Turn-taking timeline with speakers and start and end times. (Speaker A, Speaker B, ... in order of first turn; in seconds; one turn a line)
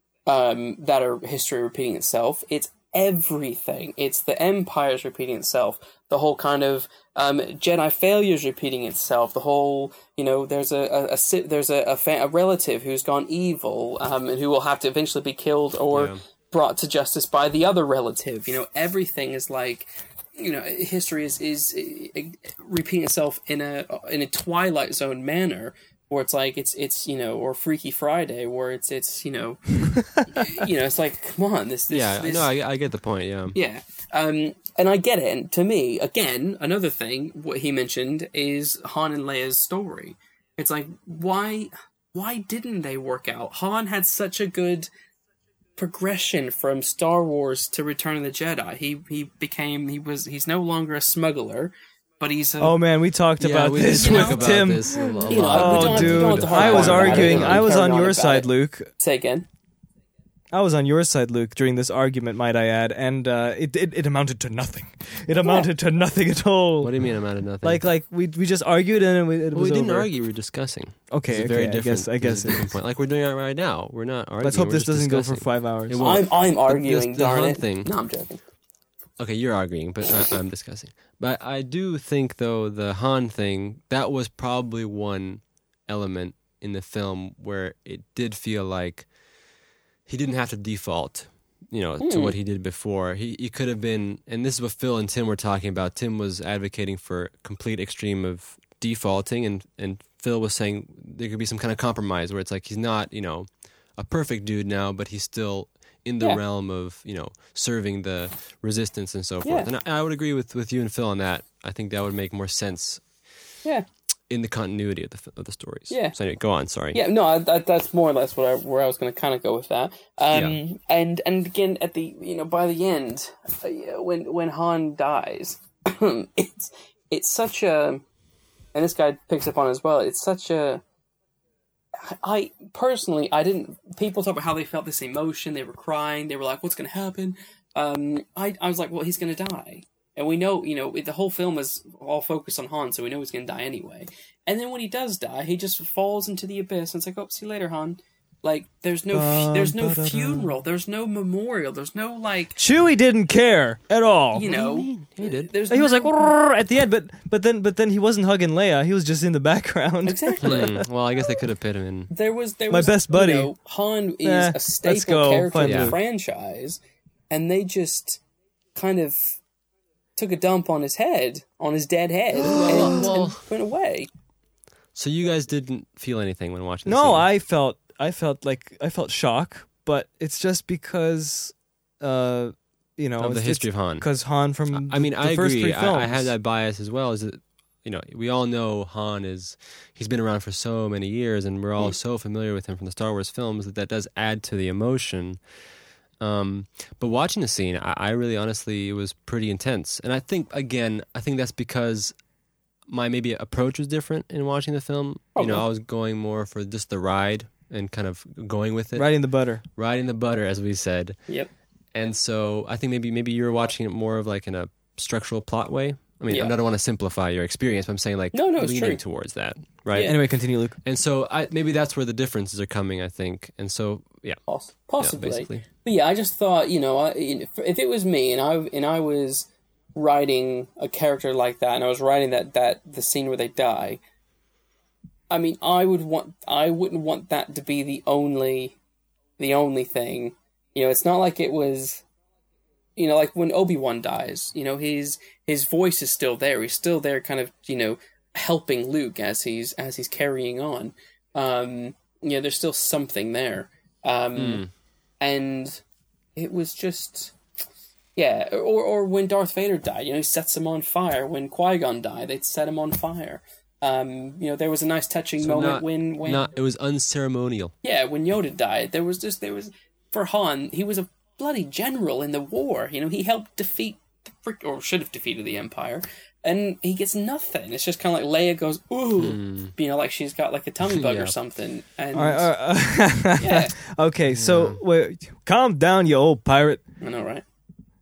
Speaker A: 0.2-32.5
Speaker B: 15.9-16.2
Speaker C: 30.1-30.5
Speaker B: 31.9-33.5
Speaker A: 33.5-44.9
Speaker A: 45.8-52.8
Speaker C: 52.6-58.9
Speaker B: 53.4-57.6
Speaker A: 53.9-54.5
Speaker A: 55.3-59.5
Speaker C: 60.5-66.9
Speaker B: 66.8-67.8
Speaker C: 67.6-70.1
Speaker B: 69.5-77.9
Speaker C: 71.1-72.7
Speaker C: 74.4-76.0
Speaker A: 76.0-78.4
Speaker B: 79.2-89.1
Speaker B: 90.1-113.0
Speaker A: 92.0-92.3
Speaker B: 114.3-117.0
Speaker A: 115.9-116.2
Speaker A: 116.9-128.0
Speaker A: 128.7-130.8
Speaker A: 132.0-152.6
Speaker C: 149.1-150.5
Speaker C: 152.6-154.5
Speaker A: 154.3-156.2
Speaker B: 154.4-155.5
Speaker C: 155.7-160.8
Speaker A: 160.1-160.7
Speaker B: 160.4-162.1
Speaker A: 162.1-166.8
Speaker C: 162.7-163.5
Speaker C: 164.2-166.0
Speaker B: 165.6-165.9
Speaker A: 167.3-168.2
Speaker A: 168.7-169.4
Speaker A: 170.2-174.1
Speaker C: 172.3-173.1
Speaker B: 172.4-173.4
Speaker B: 174.9-177.3
Speaker C: 176.8-186.3
Speaker B: 183.2-184.1
Speaker B: 184.7-195.4
Speaker B: 196.2-202.1
Speaker B: 202.9-209.1
Speaker A: 205.3-205.6
Speaker C: 208.9-209.6
Speaker B: 209.7-211.2
Speaker B: 211.9-220.2
Speaker A: 216.3-216.6
Speaker A: 218.3-219.0
Speaker C: 220.0-220.8
Speaker B: 220.8-224.4
Speaker A: 224.5-234.0
Speaker B: 225.0-225.6
Speaker A: 235.3-238.8
Speaker A: 239.4-242.0
Speaker A: 243.0-254.6
Speaker B: 254.3-254.7
Speaker A: 255.2-255.8
Speaker A: 256.4-257.3
Speaker A: 258.1-266.5
Speaker B: 265.4-267.7
Speaker A: 267.8-282.5
Speaker B: 279.2-279.7
Speaker B: 280.8-281.3
Speaker C: 282.1-286.8
Speaker A: 283.4-283.7
Speaker B: 284.3-284.8
Speaker A: 287.0-287.4